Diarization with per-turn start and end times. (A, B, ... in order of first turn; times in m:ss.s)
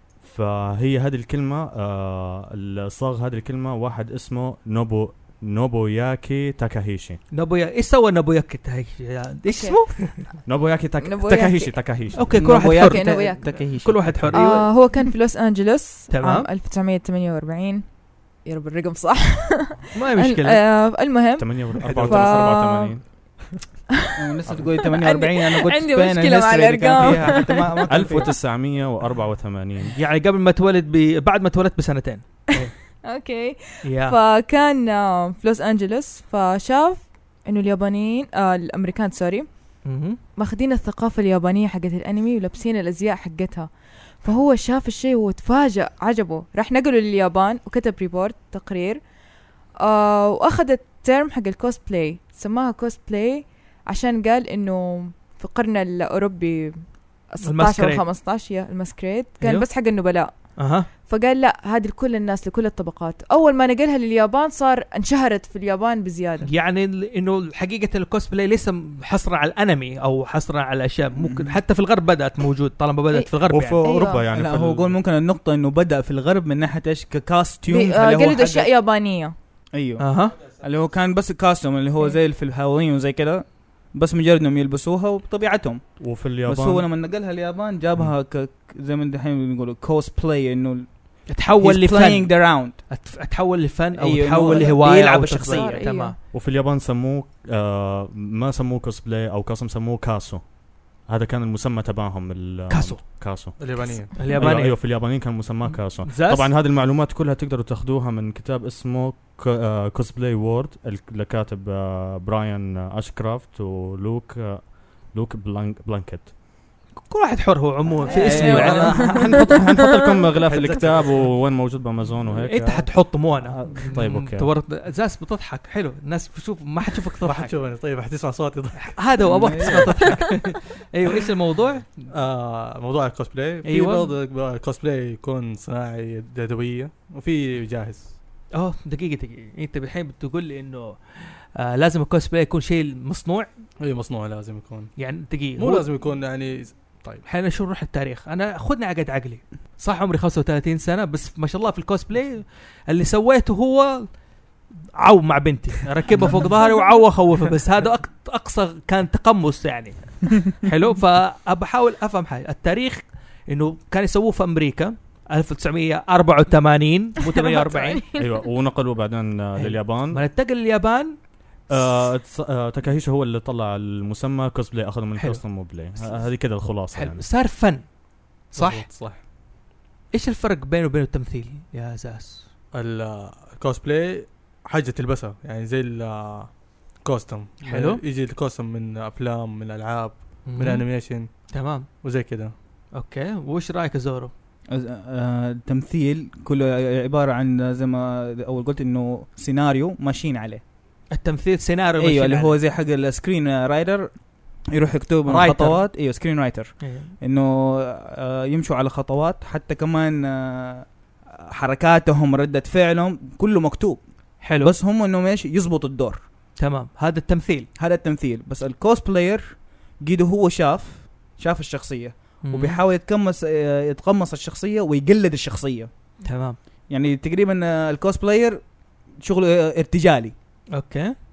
0:00.2-0:07.2 A
0:07.3-0:10.2 B
0:09.5-0:10.4 C
0:10.4-0:12.3 A
0:11.0-0:11.8 C
0:12.1-0:15.0 B
0:12.4-0:14.2 D
0:12.7-0:13.6 C
0:14.3-0:23.2 C
0:16.1-0:16.5 B
0:19.9-0:20.6 B
0:21.4-0:23.3 A
0:21.8-0:22.7 E
0:24.2-0:28.3 D
0:24.9-0:28.2 C
0:27.9-0:30.0 A
0:30.0-0:32.8 B
0:33.0-0:39.8 C
0:33.8-0:34.2 B
0:39.8-0:40.2 B
0:40.4-0:43.7 C
0:44.2-0:49.0 C
0:49.8-1:06.5 C
0:57.4-0:58.0 B
0:59.4-1:00.9 B
1:06.4-1:13.9 B
1:11.2-1:11.5 D
1:13.1-1:14.2 C
1:13.5-1:15.0 A
1:14.3-1:18.7 D
1:17.7-1:19.3 C
1:19.7-1:32.8 D
1:20.0-1:20.4 B
1:26.0-1:26.9 A
1:31.3-1:36.2 B
1:34.0-1:35.8 D
1:35.5-1:36.1 C
1:36.3-1:56.3 A
1:42.7-1:43.0 B
1:43.6-1:44.4 E
1:44.2-1:44.8 B
1:45.7-1:46.5 B
1:57.0-1:59.1 B
1:58.0-2:00.2 C
1:58.1-1:59.5 D
1:58.4-2:03.1 A
2:00.4-2:01.4 E
2:02.4-2:07.5 B
2:03.4-2:03.9 D
2:03.9-2:04.5 A
2:07.2-2:10.1 E
2:08.8-2:12.1 B
2:09.2-2:09.9 D
2:12.1-2:18.1 E
2:13.6-2:14.1 B
2:18.5-2:23.5 B
2:23.8-2:24.9 E
2:25.0-2:25.9 B
2:25.5-2:27.2 E
2:27.2-2:34.2 B
2:35.0-2:48.0 B
2:47.3-2:48.3 C
2:48.2-2:50.2 A
2:49.6-2:51.1 B
2:51.7-2:57.2 A
2:55.2-2:55.6 B
2:56.9-2:57.9 B
2:58.5-2:58.8 B
2:58.5-2:59.2 E
3:00.1-3:02.5 B
3:02.7-3:12.5 E
3:07.6-3:08.0 B
3:10.4-3:11.9 B
3:12.9-3:14.3 B
3:14.7-3:20.6 D
3:21.1-3:22.6 B
3:22.0-3:30.9 D
3:25.2-3:25.9 B
3:26.8-3:27.1 B
3:31.5-3:36.2 D
3:34.4-3:34.7 B
3:36.6-3:37.7 B
3:37.8-3:46.1 D
3:42.4-3:42.8 B
3:46.2-3:46.6 B
3:46.9-3:50.3 D
3:50.8-3:51.1 B